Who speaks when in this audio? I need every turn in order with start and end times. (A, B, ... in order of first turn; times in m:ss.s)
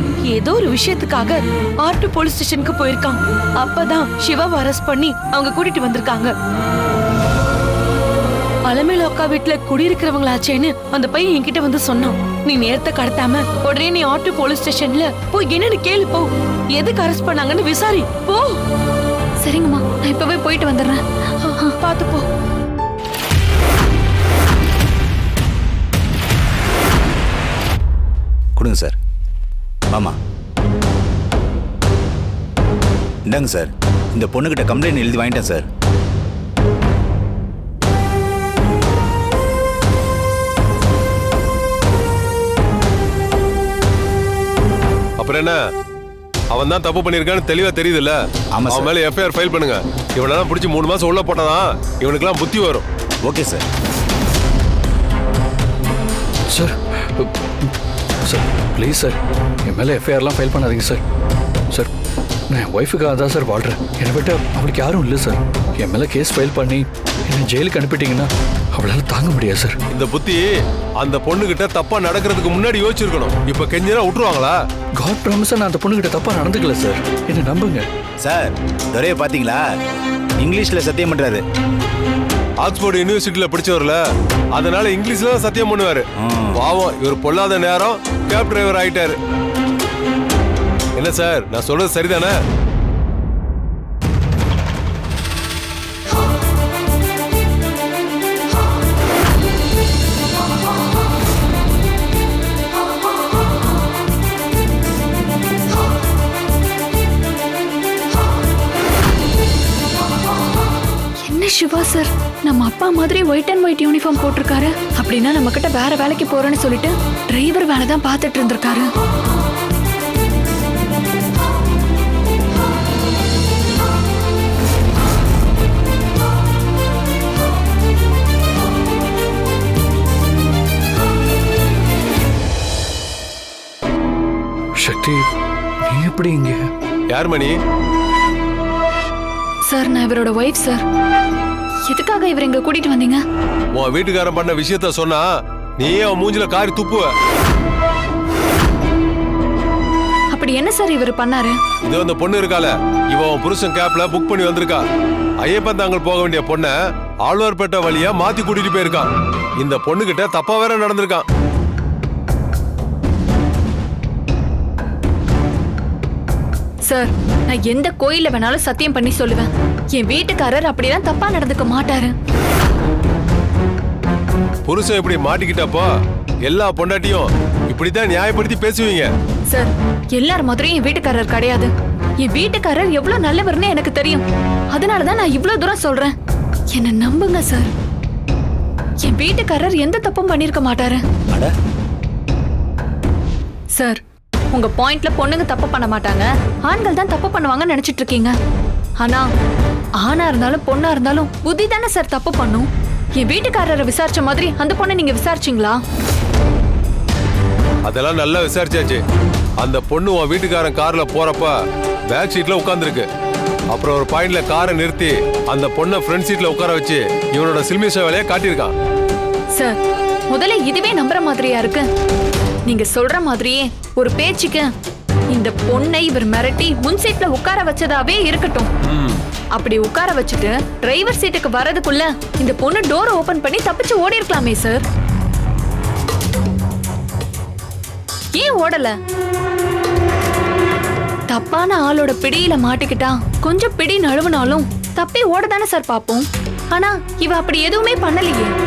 0:00.2-0:06.3 A
0:08.7-0:18.6 A
0:19.4-0:21.0 B
0:21.8-0:22.3 A
0:28.6-0:28.9 C
0:29.9-0:30.2 C
0:33.3-0:35.6 C
0:45.2-0:45.6 D
0:46.5-0:48.2 D
0:48.5-0:48.9 C
0:48.7-0:52.8 D
0:53.2-0:53.6 C
0:56.5-0:57.7 E
0:58.2-1:01.0 E
1:02.5-1:09.8 E
1:09.9-1:10.4 D
1:11.0-1:14.6 D
1:15.0-1:17.8 E
1:18.2-1:19.6 C
1:20.4-1:21.4 C
1:22.6-1:24.0 D
1:24.5-1:26.0 D
1:26.2-1:26.6 C
1:26.5-1:29.1 D
1:31.0-1:32.4 D
1:51.2-1:58.9 B
2:14.8-2:15.3 E
2:15.8-2:16.7 E
2:17.1-2:17.6 D
2:19.7-2:20.8 B
2:21.9-2:23.2 B
2:23.7-2:25.2 D
2:25.8-2:27.1 D
2:30.3-2:31.6 B
2:31.8-2:34.8 D
2:35.4-2:39.1 D
2:39.6-2:41.2 D
2:46.9-2:52.1 B
2:54.6-2:55.9 D
2:56.4-2:59.1 D
2:59.5-3:01.7 B
3:02.2-3:06.1 B
3:06.7-3:07.7 B
3:09.0-3:11.0 B
3:13.7-3:14.0 B
3:14.5-3:18.3 B
3:19.0-3:19.2 B
3:20.0-3:25.8 B
3:27.8-3:29.0 D
3:29.6-3:31.5 D
3:32.1-3:33.1 D
3:33.7-3:38.7 D
3:40.3-3:41.8 B
3:42.6-3:44.7 B
3:45.3-3:48.7 B
3:48.9-3:49.2 D
3:49.5-3:54.8 B
3:58.3-3:58.9 B
4:01.3-4:08.5 B